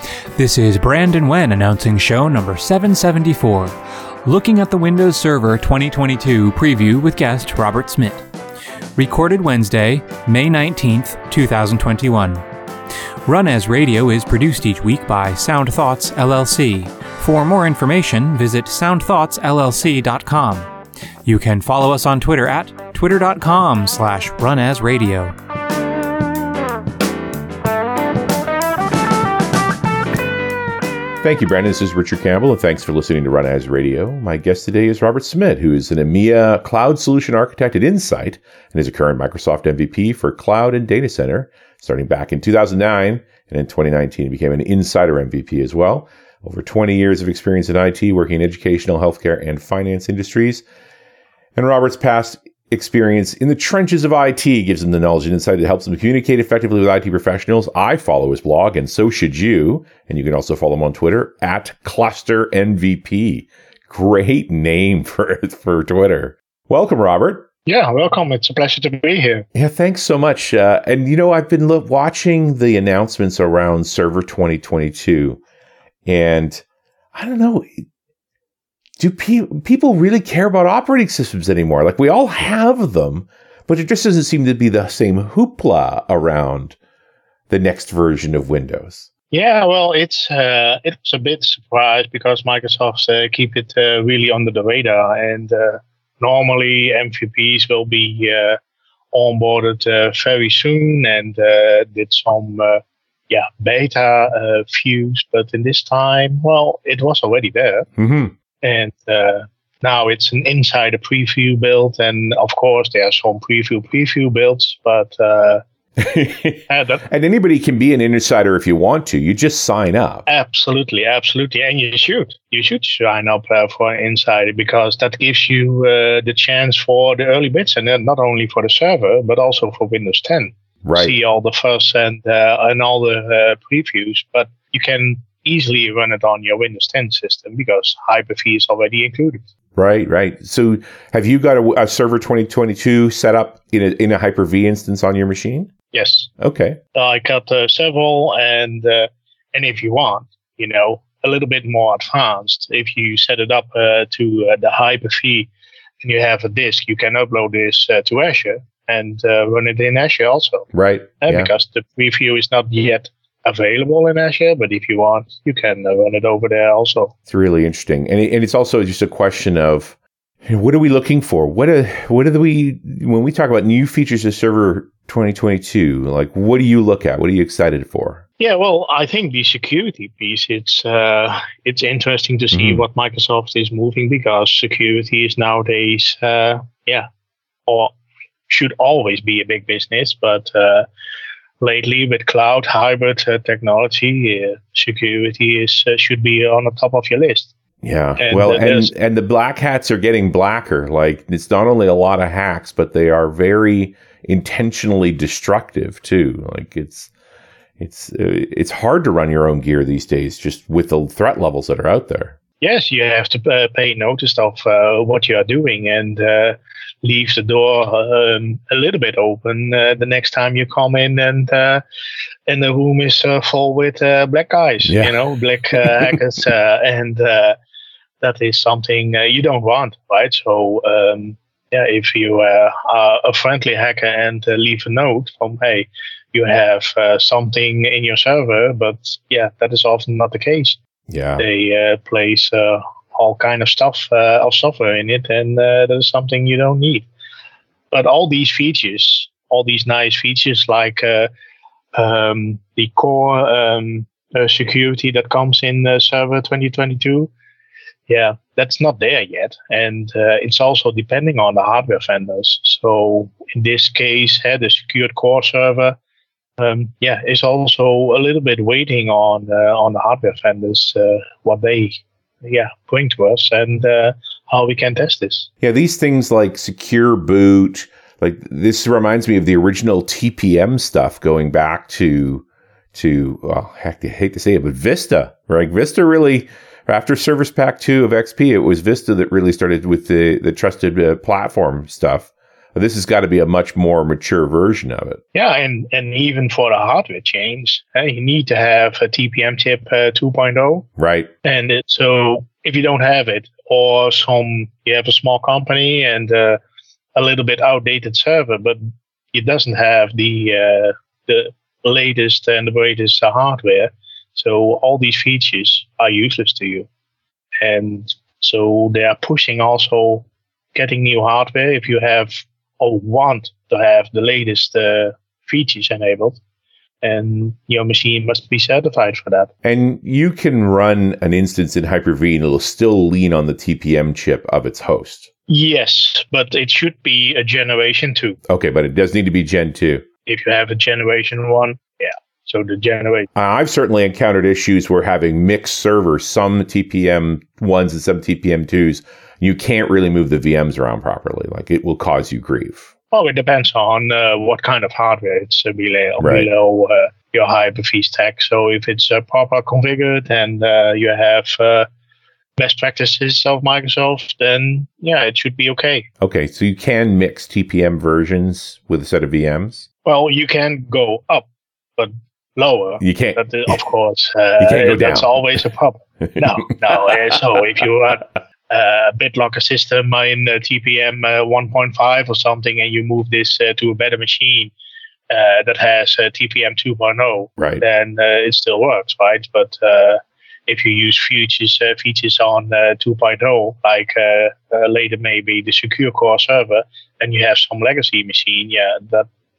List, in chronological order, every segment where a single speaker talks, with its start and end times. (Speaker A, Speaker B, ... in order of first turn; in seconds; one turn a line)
Speaker A: 0.3-8.2
Speaker A: 8.9-12.4
Speaker A: 13.2-20.7
Speaker A: 21.2-25.3
Speaker B: 31.2-50.6
Speaker B: 51.5-67.5
Speaker C: 67.7-69.5
Speaker B: 69.5-75.4
Speaker B: 76.0-77.8
Speaker B: 79.0-86.8
Speaker B: 87.5-89.1
Speaker C: 89.3-98.6
Speaker C: 99.1-107.9
Speaker B: 108.0-108.3
Speaker C: 108.6-115.6
Speaker B: 116.0-120.2
Speaker C: 116.7-117.0
Speaker C: 120.3-139.4
Speaker B: 130.8-131.1
Speaker B: 139.8-145.7
Speaker C: 145.9-146.3
Speaker B: 146.4-146.8
Speaker C: 146.9-155.5
Speaker C: 156.0-160.7
Speaker B: 160.7-161.5
Speaker C: 161.2-167.1
Speaker B: 167.3-178.2
Speaker C: 178.4-187.1
Speaker B: 182.5-182.8
Speaker C: 187.7-187.9
Speaker C: 188.5-190.8
Speaker C: 191.6-197.5
Speaker B: 197.8-207.1
Speaker C: 198.2-198.9
Speaker B: 207.8-212.4
Speaker C: 212.6-221.8
Speaker C: 222.5-227.6
Speaker B: 224.8-225.2
Speaker B: 225.8-226.2
Speaker C: 228.2-240.8
Speaker B: 241.1-241.4
Speaker C: 241.4-247.1
Speaker C: 247.9-251.3
Speaker C: 251.9-257.3
Speaker C: 258.1-266.0
Speaker C: 266.6-275.5
Speaker B: 275.6-295.2
Speaker C: 295.3-300.9
Speaker B: 301.0-301.3
Speaker C: 301.4-306.6
Speaker C: 307.1-308.8
Speaker C: 309.3-316.9
Speaker C: 317.6-326.4
Speaker C: 327.0-329.5
Speaker B: 329.6-335.3
Speaker C: 335.5-338.4
Speaker B: 338.5-340.0
Speaker C: 340.2-343.3
Speaker B: 343.3-352.9
Speaker C: 353.1-361.9
Speaker B: 356.2-356.5
Speaker C: 362.6-366.1
Speaker B: 366.2-369.9
Speaker C: 370.0-384.7
Speaker B: 373.0-373.8
Speaker B: 374.6-375.4
Speaker C: 385.3-399.3